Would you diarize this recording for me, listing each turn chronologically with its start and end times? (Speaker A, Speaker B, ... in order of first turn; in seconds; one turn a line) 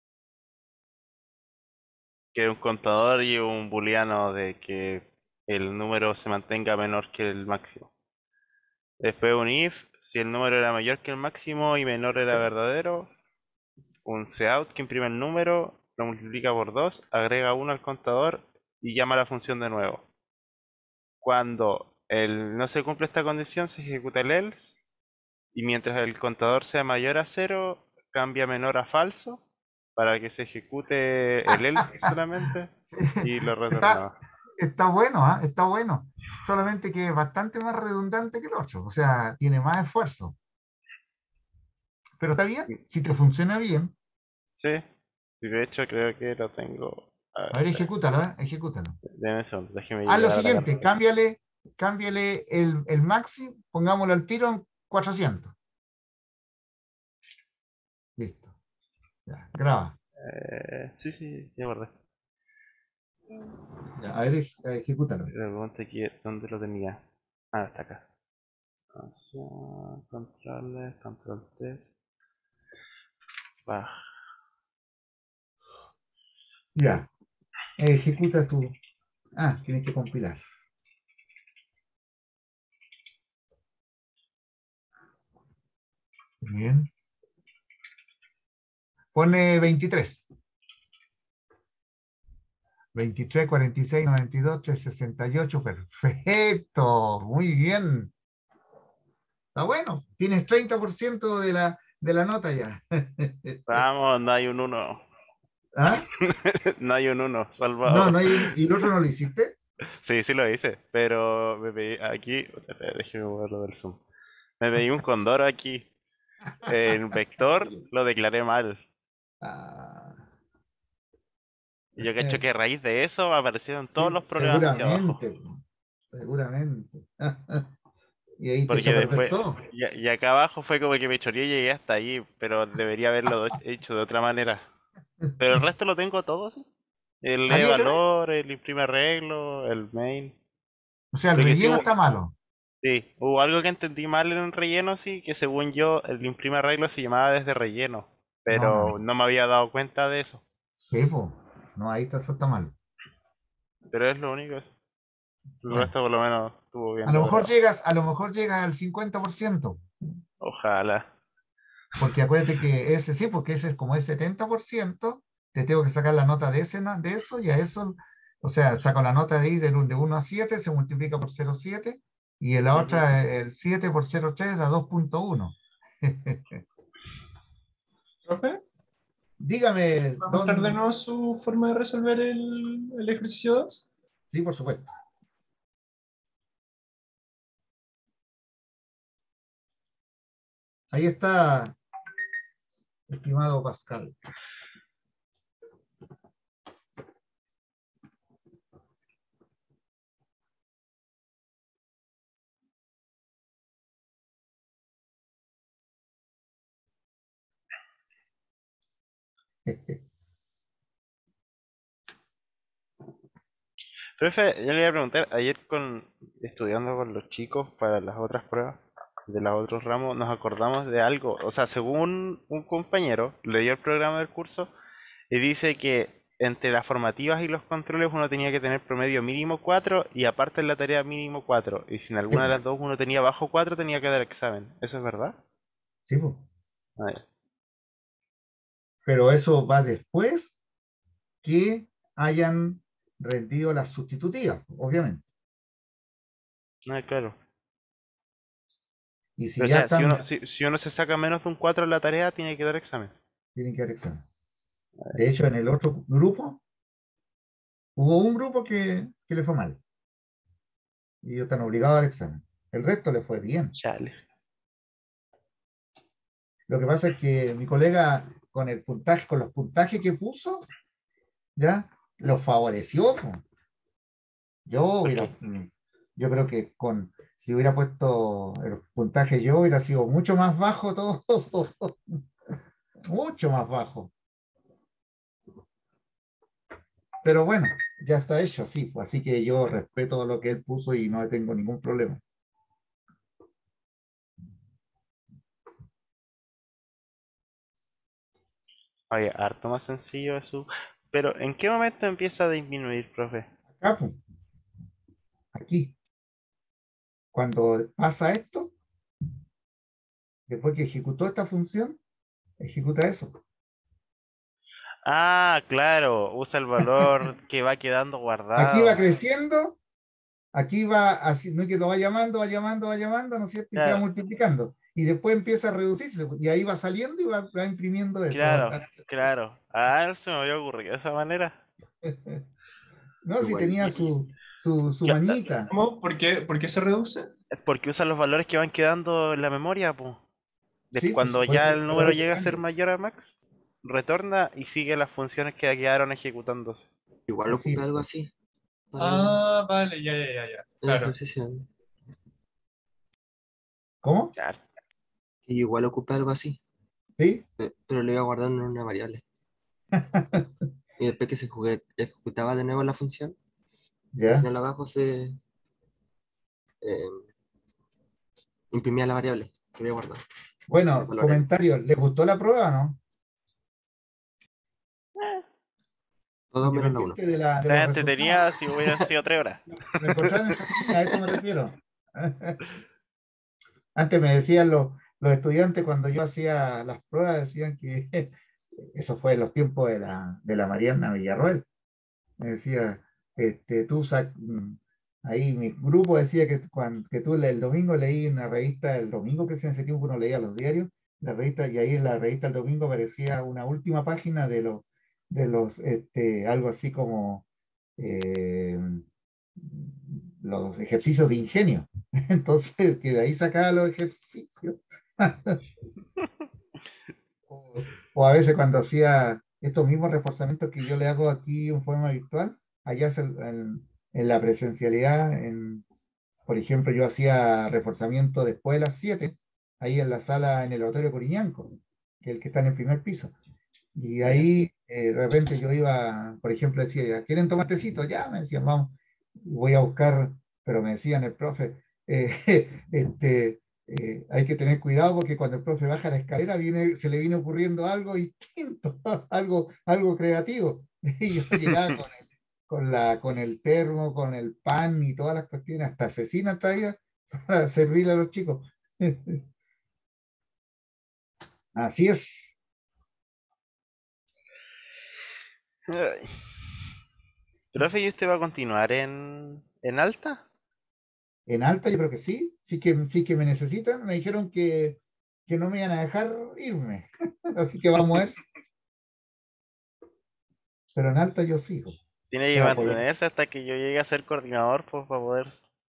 Speaker A: 2.3-7.9
Speaker A: 9.0-13.1
Speaker A: 14.0-20.0
Speaker A: 21.2-24.8
Speaker A: 25.5-29.4
Speaker A: 29.9-34.1
Speaker B: 31.5-32.1
Speaker B: 32.9-34.0
Speaker B: 34.6-40.3
Speaker B: 42.2-43.9
Speaker A: 44.6-44.8
Speaker A: 45.4-47.9
Speaker B: 47.5-49.0
Speaker A: 49.0-50.7
Speaker B: 50.1-55.5
Speaker B: 58.2-58.5
Speaker B: 59.3-60.0
Speaker A: 60.2-61.9
Speaker B: 64.0-65.3
Speaker A: 65.3-67.0
Speaker A: 67.5-68.0
Speaker A: 68.9-71.8
Speaker A: 73.7-73.9
Speaker B: 76.8-77.1
Speaker B: 77.8-78.8
Speaker B: 79.4-80.4
Speaker B: 86.4-86.9
Speaker B: 89.1-90.2
Speaker B: 92.9-98.1
Speaker B: 99.5-103.8
Speaker A: 103.7-105.0
Speaker B: 105.7-106.1
Speaker A: 106.1-108.5
Speaker B: 107.8-109.5
Speaker A: 110.0-114.0
Speaker A: 114.6-115.9
Speaker B: 116.6-116.9
Speaker A: 116.7-118.8
Speaker B: 119.4-120.2
Speaker B: 122.0-122.4
Speaker A: 122.0-125.2
Speaker B: 123.9-125.6
Speaker B: 126.1-127.7
Speaker B: 128.4-129.6
Speaker A: 128.7-134.6
Speaker A: 135.4-136.7
Speaker A: 137.2-140.3
Speaker B: 137.5-138.0
Speaker B: 141.1-142.3
Speaker A: 141.3-141.9
Speaker A: 142.8-150.4
Speaker B: 148.5-148.9
Speaker B: 150.9-152.7
Speaker A: 153.9-154.7
Speaker A: 155.6-157.5
Speaker B: 155.7-155.9
Speaker B: 157.1-159.8
Speaker A: 160.4-161.1
Speaker B: 162.0-176.6
Speaker A: 172.7-173.0
Speaker C: 178.2-178.6
Speaker B: 179.4-180.8
Speaker C: 180.2-183.8
Speaker B: 184.3-184.9
Speaker B: 190.9-191.8
Speaker B: 193.1-194.1
Speaker B: 209.7-210.0
Speaker A: 214.2-224.7
Speaker A: 225.3-235.3
Speaker B: 232.3-232.6
Speaker B: 236.1-236.4
Speaker A: 237.0-237.2
Speaker B: 239.0-240.5
Speaker B: 241.4-245.2
Speaker A: 246.8-247.3
Speaker B: 249.4-250.2
Speaker A: 249.6-253.1
Speaker B: 253.6-254.2
Speaker B: 255.1-256.6
Speaker B: 257.9-259.8
Speaker B: 261.2-263.7
Speaker A: 263.8-264.2
Speaker B: 266.7-270.6
Speaker B: 271.6-273.4
Speaker B: 274.6-282.1
Speaker B: 283.1-284.1
Speaker B: 287.2-292.2
Speaker A: 299.1-303.5
Speaker B: 303.8-304.2
Speaker B: 305.5-305.9
Speaker B: 307.3-308.7
Speaker B: 310.5-312.0
Speaker B: 312.6-313.4
Speaker A: 315.0-319.1
Speaker B: 318.6-319.8
Speaker B: 320.5-328.9
Speaker A: 323.7-324.0
Speaker A: 328.3-331.6
Speaker B: 332.0-332.4
Speaker B: 333.2-335.7
Speaker D: 333.4-334.1
Speaker A: 335.1-335.4
Speaker C: 335.7-337.3
Speaker A: 337.5-340.2
Speaker A: 340.9-346.9
Speaker B: 341.0-342.6
Speaker D: 347.3-348.3
Speaker B: 347.5-348.0
Speaker D: 348.9-349.4
Speaker C: 349.0-351.1
Speaker D: 350.8-351.7
Speaker B: 354.0-354.3
Speaker A: 354.4-354.6
Speaker D: 355.4-356.6
Speaker B: 357.2-357.4
Speaker D: 357.6-359.2
Speaker B: 360.0-360.4
Speaker D: 361.0-363.4
Speaker B: 364.1-364.5
Speaker D: 364.2-365.4
Speaker D: 366.8-367.3
Speaker D: 368.7-370.2
Speaker B: 370.7-373.0
Speaker D: 371.0-371.4
Speaker D: 376.5-377.2
Speaker B: 376.6-378.5
Speaker A: 377.7-379.6
Speaker B: 379.7-382.6
Speaker A: 380.9-381.2
Speaker B: 383.9-388.3
Speaker B: 388.8-391.6
Speaker B: 392.4-407.4
Speaker B: 408.0-409.0
Speaker B: 409.6-415.6
Speaker B: 417.5-425.8
Speaker B: 426.5-433.3
Speaker B: 433.9-459.4
Speaker A: 451.6-451.9
Speaker B: 461.7-462.6
Speaker A: 465.9-466.4
Speaker A: 467.7-470.4
Speaker B: 471.5-478.4
Speaker B: 480.9-482.0
Speaker A: 482.3-485.6
Speaker B: 482.5-483.0